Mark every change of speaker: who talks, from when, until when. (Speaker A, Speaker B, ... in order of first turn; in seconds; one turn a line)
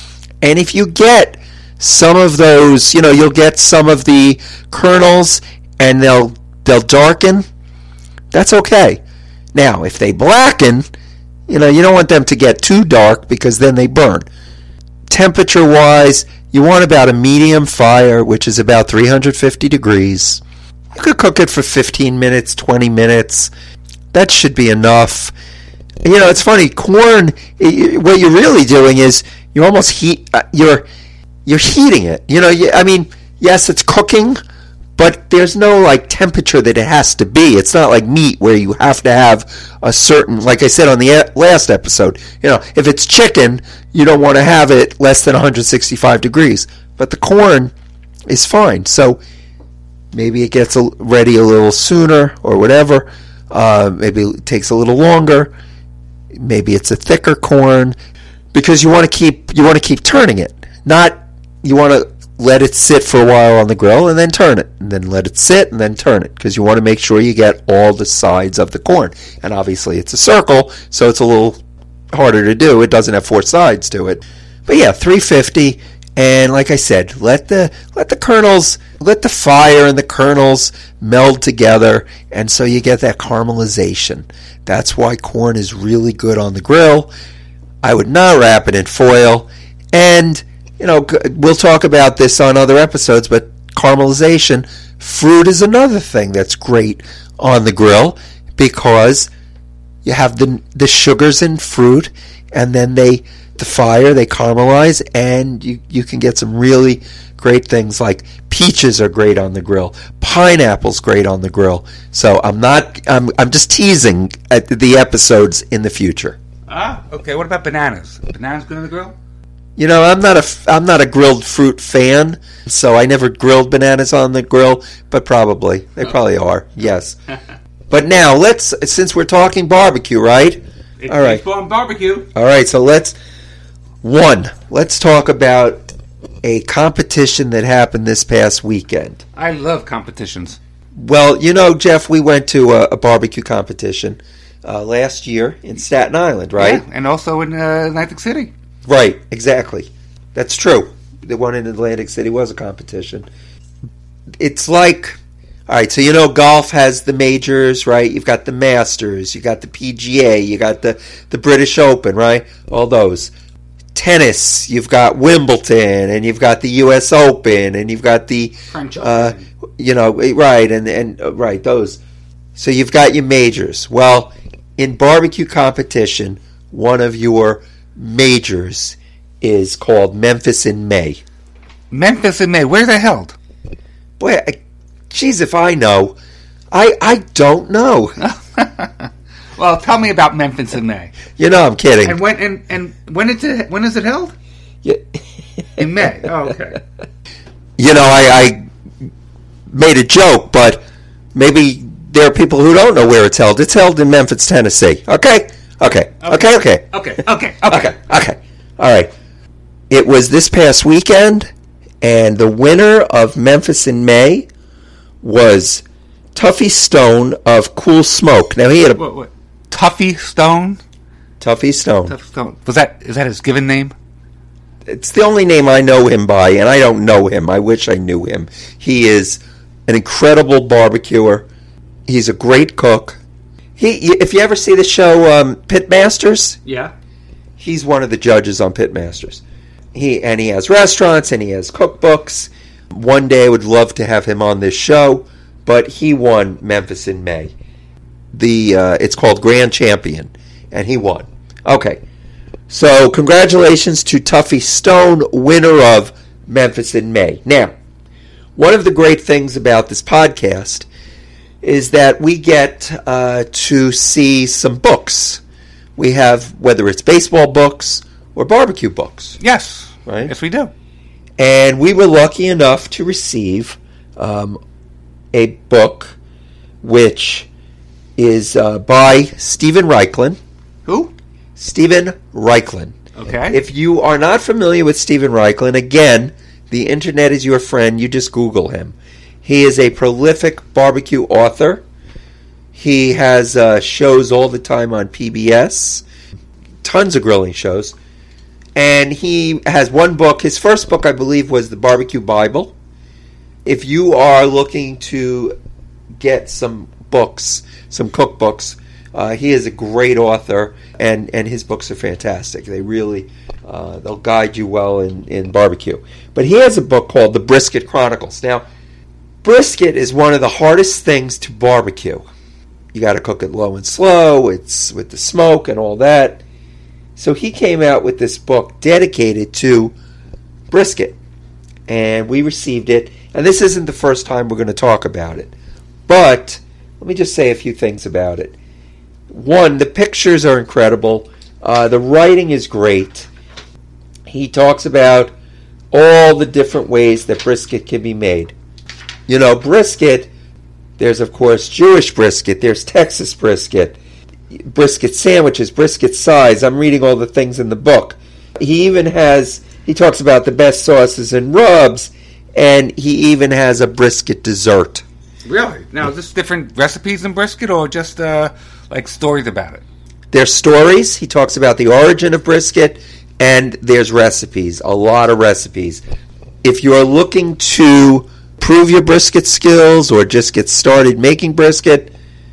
Speaker A: 0.4-7.5
Speaker A: 8.3-9.0
Speaker A: 9.5-10.9
Speaker A: 11.5-14.3
Speaker A: 15.1-20.4
Speaker A: 20.9-23.5
Speaker A: 24.1-25.3
Speaker A: 26.0-30.9
Speaker A: 31.4-34.4
Speaker A: 35.0-47.7
Speaker A: 48.3-49.2
Speaker A: 50.1-55.5
Speaker A: 56.3-58.0
Speaker A: 58.5-87.1
Speaker A: 87.8-99.3
Speaker A: 100.0-116.4
Speaker B: 116.7-119.1
Speaker A: 119.8-127.2
Speaker A: 127.9-131.4
Speaker B: 131.0-132.3
Speaker A: 132.3-133.1
Speaker A: 134.0-135.9
Speaker A: 136.4-139.2
Speaker B: 139.3-140.6
Speaker A: 140.9-146.8
Speaker B: 146.6-148.5
Speaker A: 148.8-153.3
Speaker A: 154.4-163.3
Speaker A: 163.9-172.0
Speaker B: 168.7-169.5
Speaker A: 172.6-181.2
Speaker B: 181.9-183.3
Speaker A: 184.2-184.6
Speaker A: 185.1-186.2
Speaker A: 186.7-188.2
Speaker B: 188.2-191.1
Speaker A: 191.4-192.2
Speaker B: 192.0-194.3
Speaker A: 194.8-195.2
Speaker B: 195.8-196.8
Speaker A: 197.8-198.6
Speaker A: 199.7-200.8
Speaker A: 201.3-206.9
Speaker B: 206.2-207.9
Speaker A: 207.7-209.1
Speaker A: 209.9-211.5
Speaker A: 212.0-214.5
Speaker A: 215.2-215.8
Speaker A: 216.3-219.0
Speaker B: 219.0-220.8
Speaker A: 221.4-222.1
Speaker B: 222.1-223.9
Speaker A: 224.8-231.5
Speaker A: 232.1-233.2
Speaker A: 233.8-236.6
Speaker B: 236.7-236.9
Speaker A: 237.6-239.4
Speaker A: 239.9-247.5
Speaker A: 248.3-252.0
Speaker A: 252.7-257.7
Speaker A: 258.6-260.9
Speaker A: 261.6-265.4
Speaker A: 265.9-269.4
Speaker B: 269.4-270.7
Speaker A: 270.1-270.3
Speaker A: 271.4-274.6
Speaker A: 275.3-276.1
Speaker A: 276.8-277.5
Speaker A: 278.2-280.4
Speaker B: 280.9-281.1
Speaker A: 281.6-291.8
Speaker B: 283.1-283.6
Speaker A: 292.7-296.0
Speaker A: 296.8-297.9
Speaker A: 298.8-302.7
Speaker A: 303.6-305.6
Speaker A: 306.2-318.6
Speaker A: 319.4-322.3
Speaker A: 322.9-326.4
Speaker A: 327.2-329.9
Speaker A: 330.7-331.2
Speaker A: 331.9-335.5
Speaker A: 336.1-338.6
Speaker A: 339.3-343.3
Speaker A: 344.2-345.3
Speaker A: 345.9-348.5
Speaker A: 349.3-350.3
Speaker A: 351.0-354.0
Speaker A: 354.5-365.0
Speaker B: 365.4-369.8
Speaker A: 370.3-376.0
Speaker A: 376.6-382.1